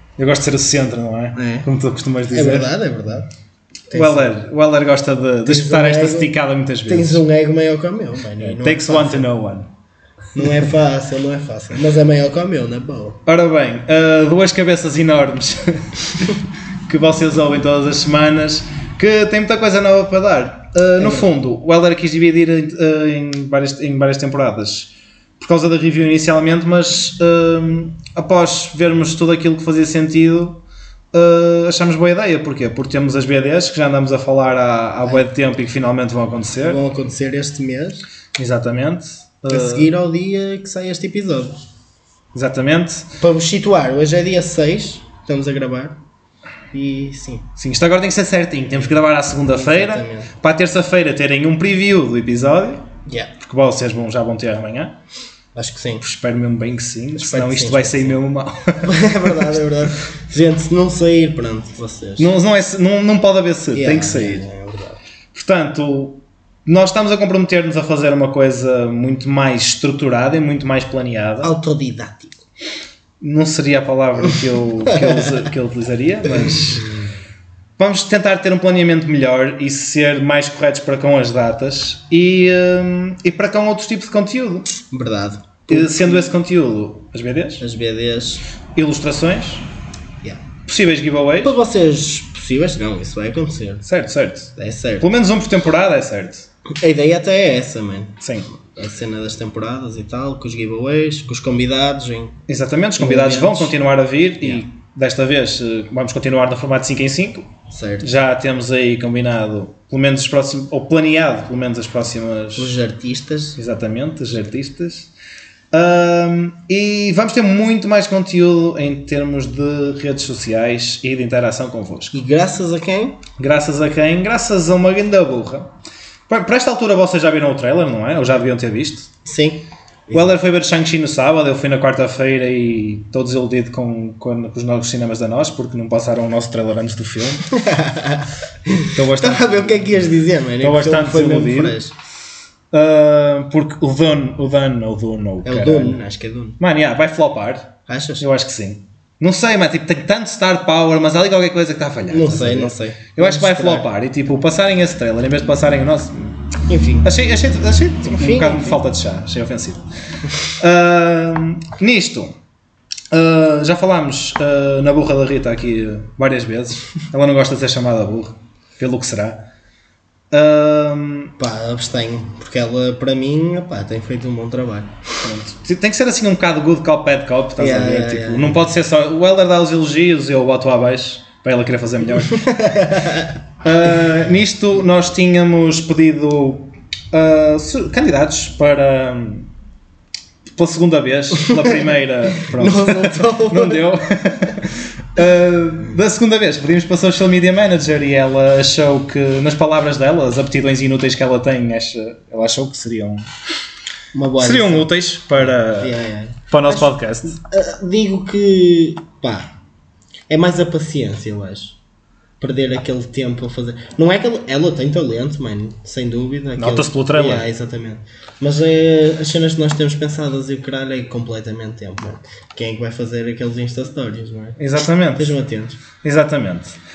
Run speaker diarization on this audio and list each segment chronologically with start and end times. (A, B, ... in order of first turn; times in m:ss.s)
0:00.2-0:02.7 A
0:01.3-0:01.7 B
0:02.3-0:03.3 B
0:03.9-0:04.4 B
0:03.9-0:07.2 A
0:05.4-0:06.3 B
0:06.8-0:09.3 B
0:08.4-0:09.7 A
0:10.3-0:13.2 B
0:13.2-0:16.3 A
0:16.8-0:30.6 A
0:21.0-0:21.3 B
0:31.1-0:36.8 A
0:36.6-0:38.0 B
0:38.3-0:39.9 A
0:39.5-0:41.6 B
0:42.3-0:43.1 A
0:43.2-0:46.0 B
0:46.7-0:47.5 B
0:47.6-0:52.8 A
0:49.4-0:50.3 B
0:53.0-0:53.3 B
0:53.4-0:54.9 A
0:55.5-0:56.0 B
0:56.0-0:59.6 A
0:57.2-0:58.2 B
0:58.8-1:02.3 B
1:02.2-1:04.4 A
1:03.7-1:05.0 B
1:05.3-1:11.5 A
1:11.4-1:12.4 B
1:13.2-1:16.9 A
1:14.8-1:15.3 B
1:17.8-1:24.7 A
1:24.9-1:26.3 B
1:25.7-1:27.6 A
1:27.6-1:28.4 B
1:28.7-1:29.6 A
1:30.6-1:31.5 A
1:31.4-1:33.8 B
1:33.8-1:36.5 A
1:34.6-1:35.1 B
1:36.8-1:42.4 B
1:38.2-1:38.5 A
1:42.5-1:47.5 A
1:43.0-1:43.8 B
1:47.7-1:48.1 B
1:48.0-1:52.7 A
1:52.6-1:53.6 B
1:53.6-1:55.1 A
1:55.7-2:02.2 A
2:02.1-2:03.2 B
2:03.4-2:05.7 A
2:06.3-2:09.1 A
2:09.2-2:10.3 B
2:10.1-2:17.6 A
2:17.5-2:21.9 B
2:18.9-2:20.0 A
2:20.6-2:21.8 A
2:22.7-2:26.0 A
2:25.4-2:26.6 B
2:26.6-2:36.3 A
2:27.9-2:28.2 B
2:32.1-2:33.9 B
2:36.7-2:37.1 B
2:37.0-2:39.8 A
2:38.0-2:38.8 B
2:40.6-2:42.3 A
2:43.1-2:49.4 A
2:50.3-2:51.3 A
2:51.4-2:55.0 B
2:55.2-3:02.6 A
2:57.6-2:58.6 B
3:02.3-3:03.3 B
3:03.6-3:09.5 A
3:10.5-3:23.3 A
3:12.4-3:13.8 B
3:24.1-3:24.9 B
3:24.4-3:25.9 A
3:25.4-3:29.5 B
3:26.5-3:27.4 A
3:30.3-3:31.8 B
3:32.4-3:45.8 B
3:36.6-3:37.4 A
3:44.6-3:45.3 A
3:46.0-3:46.8 A